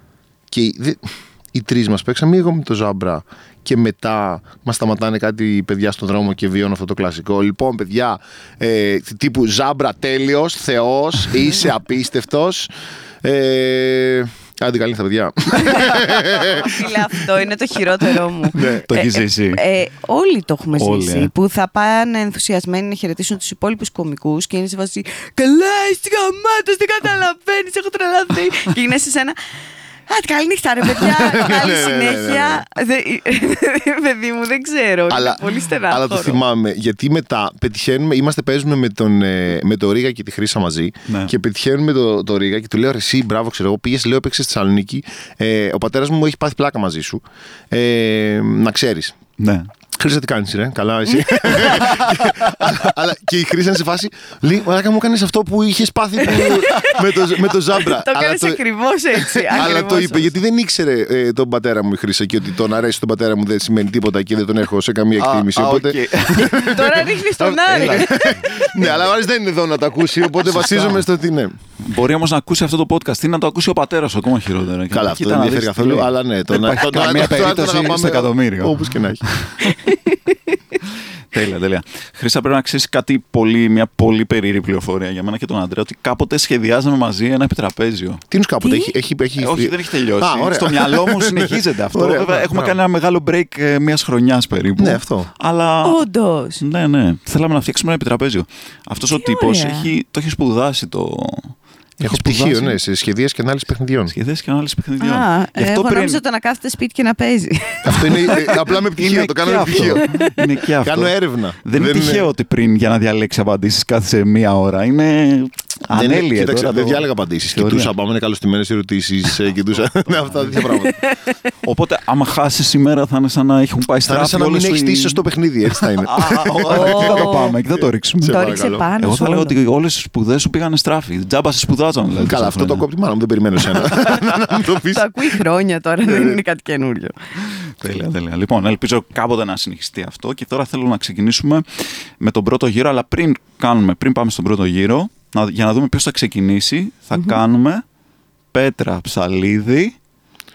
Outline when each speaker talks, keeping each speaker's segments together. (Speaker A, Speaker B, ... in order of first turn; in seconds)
Speaker A: 0.5-12.7, 13.2-17.1, 18.5-18.9, 30.9-32.6, 35.1-49.2, 50.0-58.6, 59.1-71.6, 74.9-79.2, 88.3-92.8, 94.8-95.3, 102.0-104.1, 107.8-110.2, 110.8-112.3, 115.9-121.0, 124.0-127.4, 128.2-128.9, 132.2-135.4, 136.0-136.4
Speaker B: 15.6-29.4, 30.1-36.4, 51.1-51.9, 56.2-60.3, 66.4-68.1, 79.8-80.2, 88.6-88.9, 95.8-96.6, 99.1-99.9, 105.0-108.4, 110.1-110.4, 120.6-121.4, 126.7-127.5, 128.3-129.6, 134.9-137.2
Speaker C: 18.9-19.6, 20.8-21.3, 41.1-41.3, 49.4-49.7, 51.8-52.4, 65.2-67.0, 67.7-68.4, 70.4-71.1, 71.8-79.8, 81.3-88.2, 89.4-96.1, 96.6-102.8, 104.1-106.2, 109.0-117.9, 121.6-125.2, 126.0-132.8, 137.5-141.7, 142.2-147.8, 148.5-149.9